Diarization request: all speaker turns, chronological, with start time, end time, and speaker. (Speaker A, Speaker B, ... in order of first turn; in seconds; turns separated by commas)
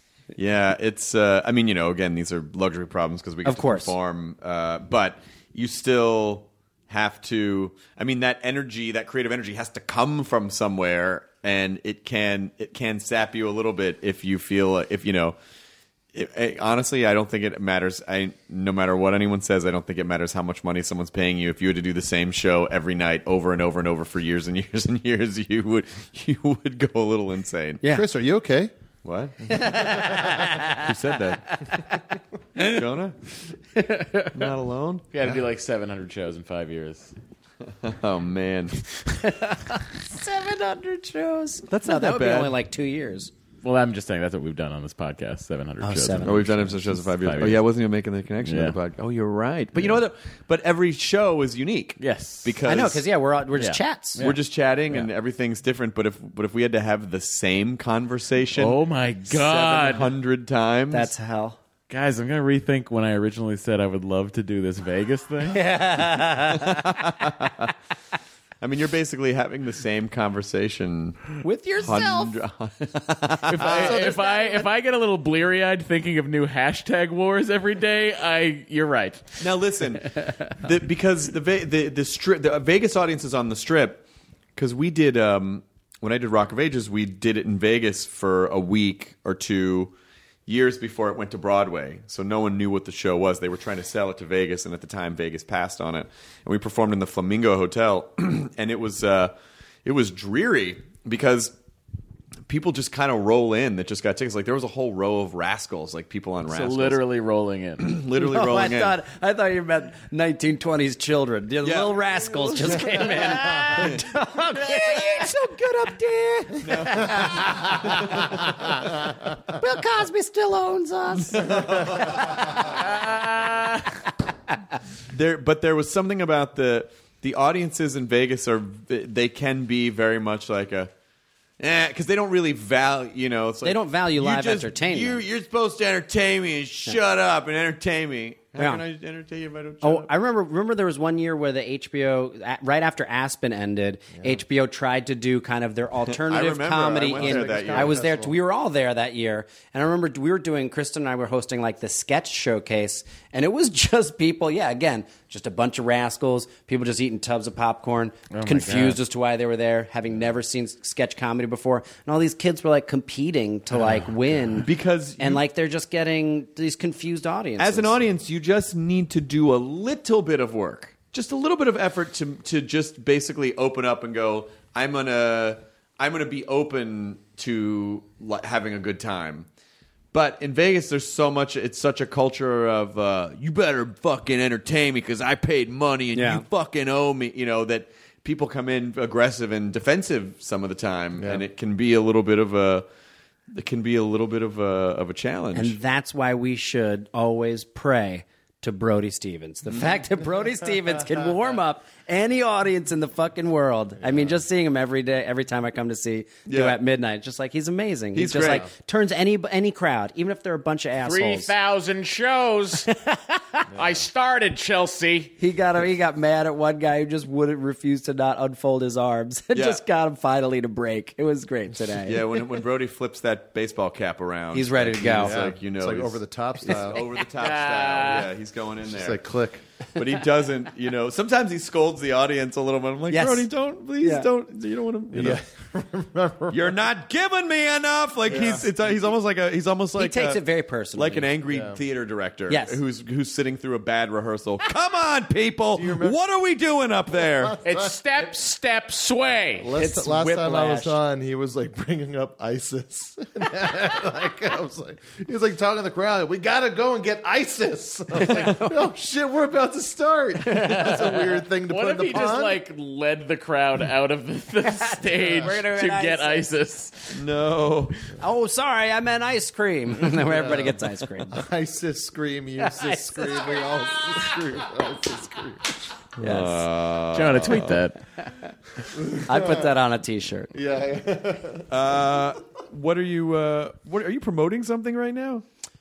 Speaker A: 0.3-15.3, Speaker B: 3.4-3.9, Speaker A: 16.1-27.8, Speaker B: 27.8-28.1, Speaker C: 27.9-28.7, Speaker A: 29.0-31.8, Speaker B: 29.5-30.9, Speaker A: 32.6-33.2, Speaker B: 33.8-34.3, Speaker A: 34.3-35.1, Speaker D: 35.1-37.1, Speaker A: 37.7-38.8, Speaker B: 39.2-43.3, Speaker A: 41.7-42.5, Speaker D: 43.6-47.6, Speaker B: 45.8-46.5, Speaker A: 46.2-53.0, Speaker D: 48.4-48.8, Speaker D: 52.0-52.6, Speaker B: 52.6-54.2, Speaker D: 53.5-55.1, Speaker A: 54.2-61.1, Speaker D: 58.5-60.1, Speaker B: 60.9-61.6, Speaker D: 61.9-65.6, Speaker B: 65.5-67.0, Speaker A: 66.6-67.7, Speaker A: 68.6-74.1, Speaker B: 71.4-72.3, Speaker D: 73.5-79.5, Speaker B: 73.6-74.7, Speaker A: 79.4-84.0, Speaker A: 84.5-89.9, Speaker A: 90.5-99.3, Speaker A: 99.8-101.5, Speaker A: 102.5-107.0, Speaker D: 106.5-107.9, Speaker A: 107.8-109.0, Speaker B: 108.2-118.5, Speaker A: 111.6-112.0, Speaker D: 112.3-114.0, Speaker A: 113.8-114.0, Speaker D: 114.5-115.4, Speaker A: 116.6-118.4, Speaker C: 117.4-117.9, Speaker B: 119.5-121.5, Speaker A: 121.3-122.6, Speaker D: 122.7-123.9, Speaker A: 125.1-130.9, Speaker A: 131.6-140.1, Speaker B: 133.6-135.2, Speaker B: 138.6-138.8, Speaker B: 139.8-167.9, Speaker A: 146.1-148.0, Speaker C: 147.0-148.4, Speaker D: 158.3-159.0, Speaker A: 164.6-165.4, Speaker A: 167.6-179.5, Speaker A: 180.1-192.8, Speaker B: 186.1-186.4, Speaker C: 191.2-191.4, Speaker A: 193.5-195.8, Speaker B: 195.5-211.5, Speaker C: 204.0-204.4, Speaker A: 206.5-206.8, Speaker A: 208.1-208.7, Speaker C: 208.4-208.7, Speaker D: 211.0-213.1, Speaker B: 212.9-213.6, Speaker D: 213.7-215.3, Speaker C: 213.7-214.0, Speaker B: 215.4-222.3, Speaker A: 219.5-219.8, Speaker A: 222.0-229.2, Speaker B: 224.5-225.4, Speaker C: 225.2-227.0, Speaker D: 227.4-228.3, Speaker C: 228.9-229.6, Speaker A: 229.9-235.4, Speaker B: 233.1-233.5, Speaker B: 234.0-234.3, Speaker C: 235.1-236.7, Speaker A: 236.5-240.4, Speaker C: 238.3-238.8, Speaker B: 240.0-241.3, Speaker A: 240.9-247.6, Speaker C: 241.5-241.8, Speaker B: 242.5-242.8, Speaker C: 245.7-246.2, Speaker C: 247.4-247.9, Speaker D: 247.6-249.8, Speaker C: 249.6-262.6, Speaker B: 249.8-251.0, Speaker B: 258.1-258.8, Speaker B: 260.4-261.1, Speaker D: 260.8-267.2, Speaker B: 264.7-266.5, Speaker A: 267.1-268.0, Speaker B: 268.2-271.4, Speaker C: 270.3-270.7, Speaker C: 271.3-275.6, Speaker B: 272.6-275.5, Speaker B: 276.2-276.6, Speaker A: 276.2-277.8, Speaker D: 277.1-278.0, Speaker C: 278.9-279.7, Speaker B: 279.2-280.5, Speaker C: 280.5-281.7, Speaker A: 281.7-285.4